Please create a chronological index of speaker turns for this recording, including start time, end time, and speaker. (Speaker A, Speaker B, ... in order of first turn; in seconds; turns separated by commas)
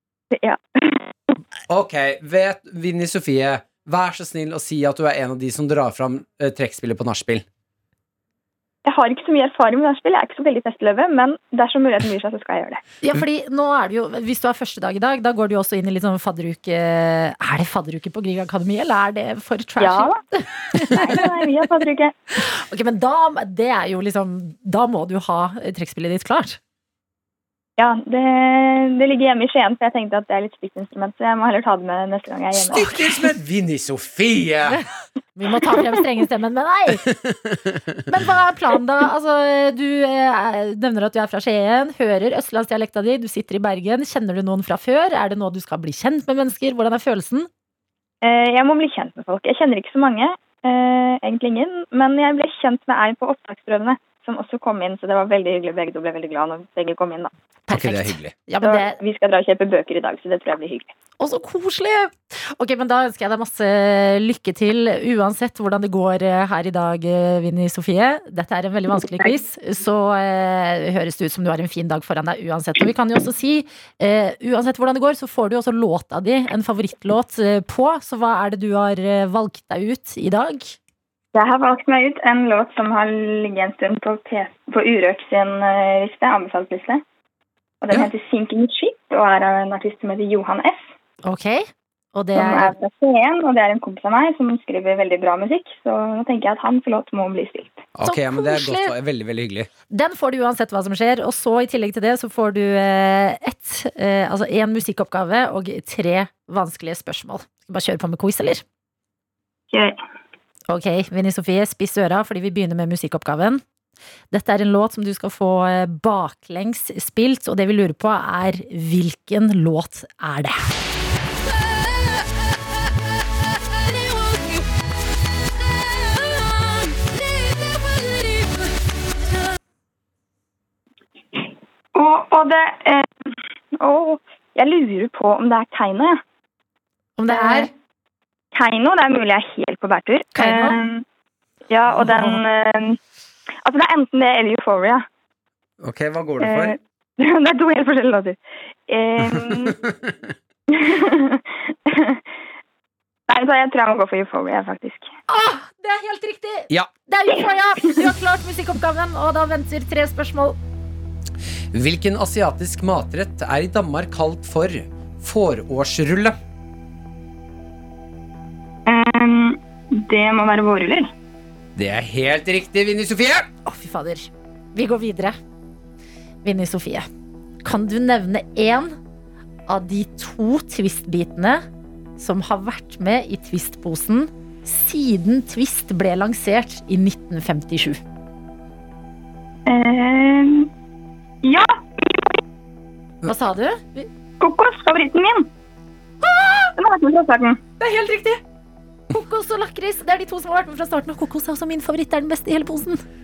Speaker A: 0.3-1.1, Speaker B: 1.7-7.5, Speaker A: 8.8-12.8, Speaker C: 13.0-21.3, Speaker A: 19.8-20.2, Speaker A: 20.8-22.2, Speaker C: 22.4-26.6, Speaker A: 27.8-32.9, Speaker B: 32.7-34.8, Speaker C: 32.7-33.2, Speaker C: 35.4-37.1, Speaker B: 37.1-37.9, Speaker C: 38.1-47.5, Speaker A: 48.2-57.3, Speaker C: 57.7-59.0, Speaker B: 57.7-58.3, Speaker A: 58.6-60.9, Speaker C: 61.2-80.8, Speaker A: 81.3-87.0, Speaker A: 87.8-90.8, Speaker C: 91.2-92.8, Speaker A: 92.3-97.9, Speaker B: 98.0-99.7, Speaker C: 98.0-98.9, Speaker C: 99.9-108.6, Speaker A: 109.7-110.0, Speaker C: 110.7-113.6, Speaker C: 114.3-120.7, Speaker A: 131.9-133.3, Speaker A: 133.8-136.2, Speaker C: 137.2-137.7, Speaker A: 137.3-137.7, Speaker A: 138.5-141.0, Speaker C: 140.3-140.8, Speaker A: 141.7-143.0, Speaker C: 142.0-142.4, Speaker A: 143.7-145.1, Speaker B: 145.8-146.8, Speaker A: 146.4-149.8, Speaker B: 149.6-150.3, Speaker A: 150.7-152.2, Speaker A: 153.3-155.1, Speaker C: 155.3-160.6, Speaker B: 161.7-166.4, Speaker A: 168.9-171.1, Speaker B: 171.8-173.5, Speaker C: 173.7-175.4, Speaker C: 176.4-177.1, Speaker C: 177.6-179.0, Speaker C: 179.7-181.6, Speaker C: 182.2-188.0, Speaker A: 189.7-190.7, Speaker A: 191.4-192.4, Speaker C: 193.2-194.1, Speaker A: 194.4-195.5, Speaker C: 196.2-196.7, Speaker A: 196.8-197.6, Speaker C: 197.8-198.4, Speaker C: 199.1-203.0